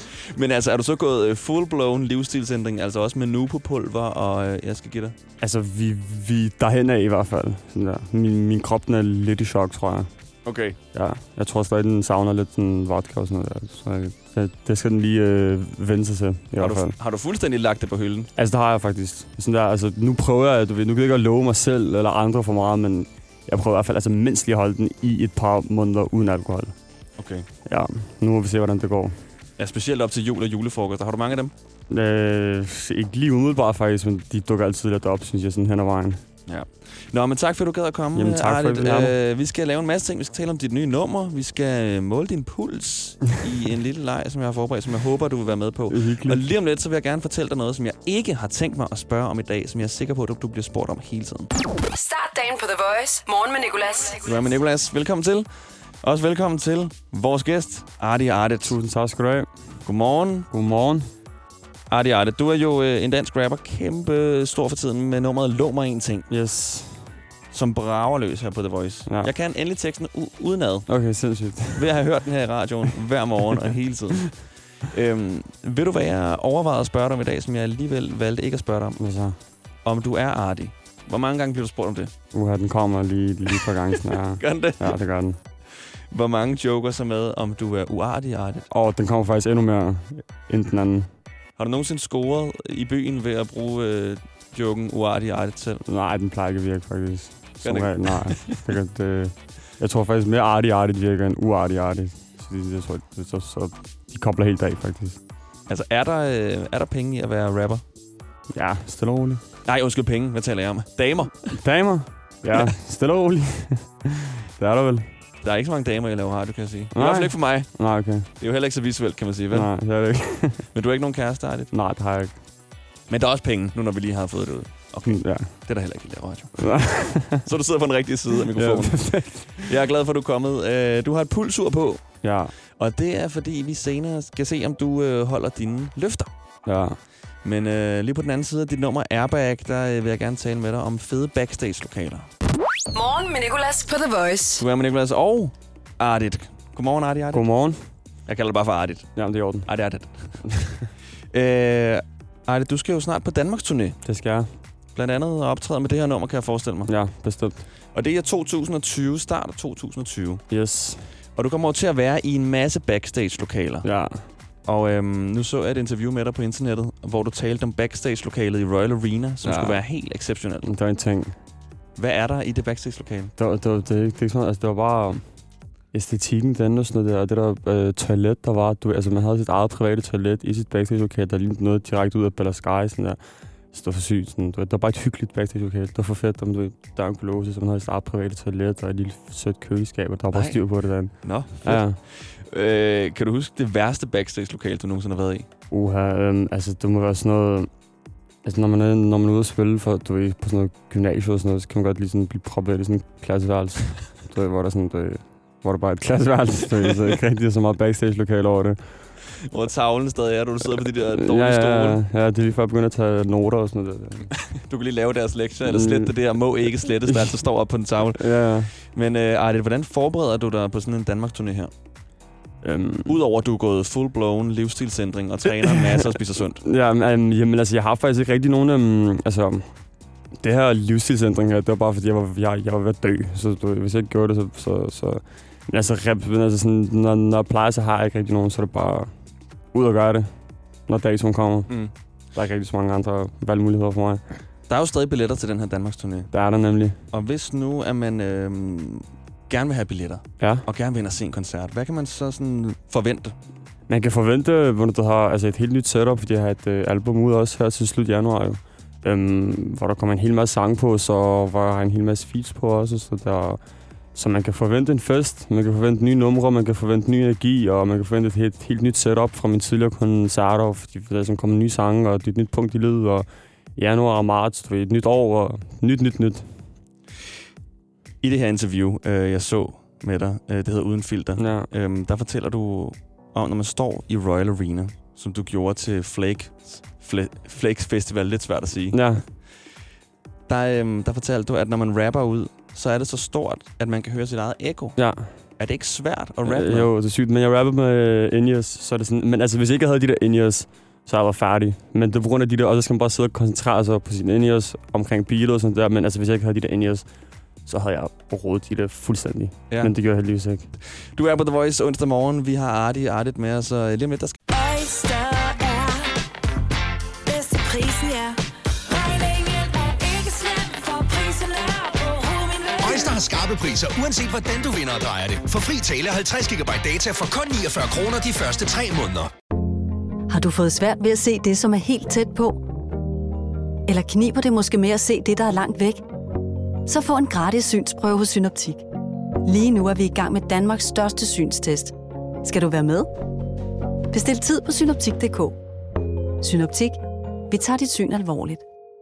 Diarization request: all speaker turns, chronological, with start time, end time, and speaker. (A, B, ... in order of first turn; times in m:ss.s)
0:00.3-0:05.1 A
0:05.4-0:10.1 B
0:10.4-0:10.8 A
0:10.9-0:17.0 B
0:16.6-0:18.3 A
0:18.4-0:26.7 B
0:27.2-0:27.5 A
0:27.6-0:29.3 B
0:29.6-0:31.5 A
0:31.9-0:36.2 B
0:36.5-0:51.5 A
0:38.1-0:39.1 B
0:45.9-0:46.4 B
0:51.9-0:54.5 C
0:54.2-0:55.5 A
0:56.0-0:58.8 A
0:58.6-0:59.8 B
0:59.8-1:00.5 A
1:00.5-1:01.1 B
1:01.9-1:06.3 A
1:06.3-1:07.2 B
1:07.5-1:10.9 A
1:09.0-1:09.3 B
1:10.9-1:11.9 B
1:11.7-1:19.0 A
1:19.0-1:19.4 B
1:19.8-1:22.1 A
1:22.3-1:25.4 B
1:24.4-1:25.0 A
1:26.1-1:28.7 A
1:28.7-1:31.1 B
1:31.6-1:35.8 A
1:35.8-1:45.2 B
1:37.6-1:38.7 A
1:45.7-1:47.8 A
1:48.5-1:49.4 B
1:49.6-1:51.6 A
1:51.5-1:54.0 B
1:54.6-1:55.2 B
1:55.4-1:59.7 A
1:56.9-1:58.3 B
1:59.5-2:00.7 B
2:00.7-2:01.7 A
2:01.7-2:02.4 B
2:03.1-2:16.3 A
2:05.0-2:05.7 B
2:06.6-2:07.4 B
2:08.5-2:09.7 B
2:12.2-2:12.5 B
2:16.6-2:17.0 B
2:17.4-2:22.3 A
2:22.9-2:24.6 C
2:24.6-2:27.7 A
2:27.3-2:27.9 B
2:28.2-2:30.8 A
2:29.1-2:30.6 B
2:31.3-2:34.0 A
2:34.0-2:34.5 B
2:34.9-2:37.0 A
2:36.8-2:37.7 B
2:37.7-2:40.4 A
2:40.5-2:41.1 B
2:41.3-2:43.9 A
2:43.8-2:44.3 B
2:44.6-2:50.7 A
2:49.4-2:49.8 B
2:50.6-2:51.4 B
2:52.0-2:53.3 A
2:53.4-2:55.4 B
2:55.9-3:12.0 B
3:10.3-3:15.5 A
3:15.7-3:17.7 B
3:18.4-3:29.1 B
3:26.8-3:27.1 A
3:29.4-3:32.0 A
3:31.1-3:34.3 B
3:34.3-3:41.7 A
3:35.6-3:36.2 B
3:37.0-3:37.4 B
3:38.1-3:38.7 B
3:42.6-3:43.1 B
3:43.1-3:46.6 A
3:45.4-3:46.1 B
3:46.6-3:49.8 B
3:50.4-3:59.1 B
3:59.7-4:04.3 B
4:01.7-4:01.9 A
4:04.7-4:06.3 A
4:06.3-4:07.0 B
4:07.1-4:13.3 A
4:10.4-4:10.6 B
4:13.9-4:23.6 B
4:24.1-4:36.6 B
4:38.2-4:49.8 A
4:41.4-4:41.7 B
4:48.9-4:49.2 B
4:50.5-4:56.9 A
4:55.0-4:55.5 B
4:56.4-5:07.1 B
5:07.6-5:10.7 B
5:09.7-5:09.9 A
5:10.8-5:14.4 A
5:14.5-5:16.1 D
5:17.2-5:23.2 D
5:22.8-5:29.3 E
5:30.3-5:32.6 F
5:33.9-5:36.0 F
5:36.8-5:38.8 F
5:39.4-5:43.1 F
5:44.1-5:45.6 F
5:46.4-5:47.0 F
5:47.5-5:48.6 F